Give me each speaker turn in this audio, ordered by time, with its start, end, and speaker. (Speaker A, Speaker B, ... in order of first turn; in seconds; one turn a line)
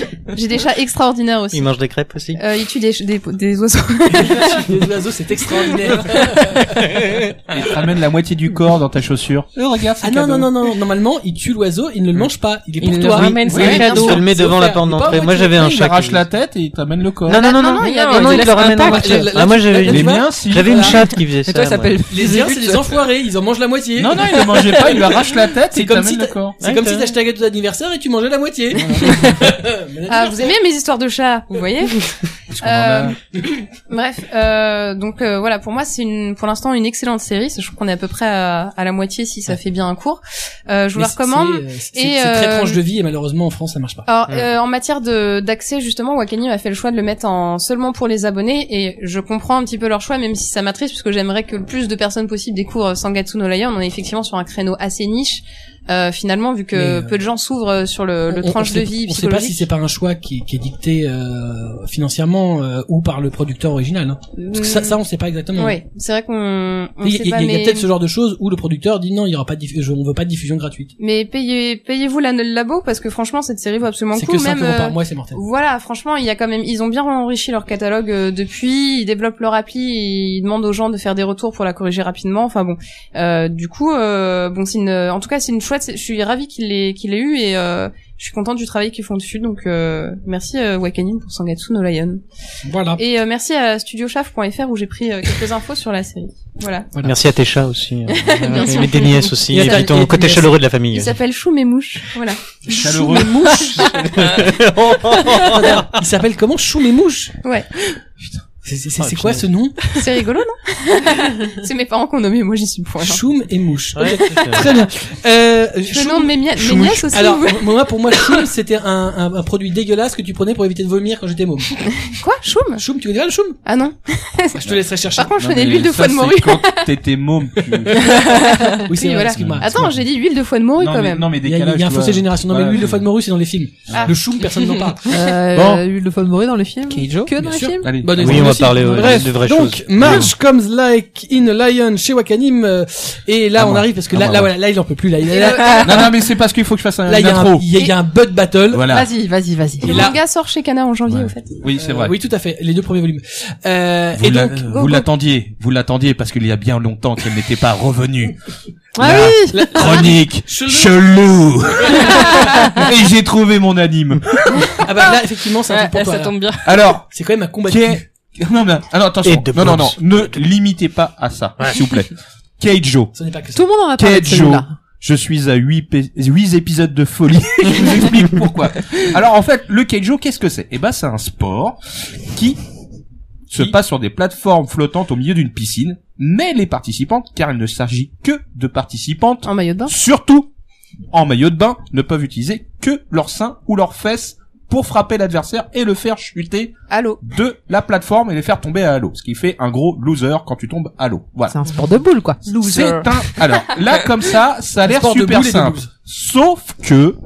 Speaker A: 0.3-1.7
Speaker B: 1.5-2.4
Speaker A: 2.3-4.7
Speaker C: 4.1-6.8
Speaker D: 7.5-10.5
Speaker C: 10.0-15.5
Speaker E: 12.8-14.2
Speaker B: 13.1-16.2
Speaker D: 13.5-13.9
Speaker A: 13.5-14.2
Speaker D: 15.5-17.4
Speaker B: 17.2-22.0
Speaker A: 17.3-18.6
Speaker E: 17.8-19.4
Speaker C: 18.6-21.0
Speaker D: 19.8-21.0
Speaker E: 20.8-23.0
Speaker C: 22.1-30.6
Speaker D: 24.0-26.6
Speaker B: 26.6-27.1
Speaker B: 28.9-29.2
Speaker A: 30.1-42.8
Speaker D: 32.5-33.2
Speaker C: 40.9-44.1
Speaker A: 44.0-59.7
Speaker C: 56.7-57.2
Speaker C: 58.3-65.8
Speaker A: 64.4-65.0
Speaker A: 65.5-67.9
Speaker C: 67.0-70.9
Speaker A: 71.0-92.2
Speaker C: 74.1-75.4
Speaker C: 92.6-93.0
Speaker A: 93.0-96.9
Speaker B: 97.0-101.2
Speaker A: 98.1-99.9
Speaker C: 99.3-100.5
Speaker A: 100.9-104.0
Speaker D: 102.6-103.9
Speaker C: 102.7-103.8
Speaker B: 103.8-105.9
Speaker C: 105.3-107.3
Speaker A: 107.4-107.7
Speaker C: 108.6-110.0
Speaker B: 109.0-109.5
Speaker A: 109.9-113.2
Speaker C: 113.0-122.0
Speaker B: 113.9-114.7
Speaker A: 114.2-114.8
Speaker A: 115.9-118.4
Speaker A: 122.1-122.8
Speaker C: 122.8-123.6
Speaker A: 123.6-126.9
Speaker C: 124.6-125.3
Speaker D: 125.3-128.2
Speaker A: 127.9-131.3
Speaker C: 128.8-130.0
Speaker D: 129.3-129.7
Speaker D: 130.8-133.0
Speaker C: 131.4-135.2
Speaker D: 133.9-134.2
Speaker F: 135.1-138.0
Speaker D: 135.5-135.8
Speaker E: 136.9-137.3
Speaker C: 137.4-146.1
Speaker D: 137.8-138.7
Speaker B: 138.1-140.3
Speaker D: 140.0-140.3
Speaker D: 143.6-144.5
Speaker A: 145.3-146.1
Speaker D: 145.8-147.7
Speaker C: 147.1-148.9
Speaker D: 148.7-149.1
Speaker F: 148.9-150.1
Speaker A: 149.8-151.5
Speaker C: 149.8-150.2
Speaker D: 151.1-152.1
Speaker C: 151.8-155.0
Speaker D: 154.2-158.3
Speaker F: 158.9-160.1
Speaker D: 159.0-164.9
Speaker C: 159.5-161.0
Speaker C: 161.8-162.7
Speaker C: 164.7-166.4
Speaker E: 165.7-166.7
Speaker D: 166.6-167.1
Speaker C: 167.1-168.0
Speaker D: 167.7-173.1
Speaker B: 169.2-170.4
Speaker C: 173.1-173.6
Speaker F: 173.5-174.7
Speaker D: 173.9-181.8
Speaker D: 182.3-182.6
Speaker D: 183.5-190.5
Speaker A: 189.4-189.9
Speaker D: 191.1-201.6
Speaker A: 196.9-197.2
Speaker F: 201.5-203.1
Speaker E: 202.5-202.9
Speaker D: 202.6-207.2
Speaker C: 204.8-205.9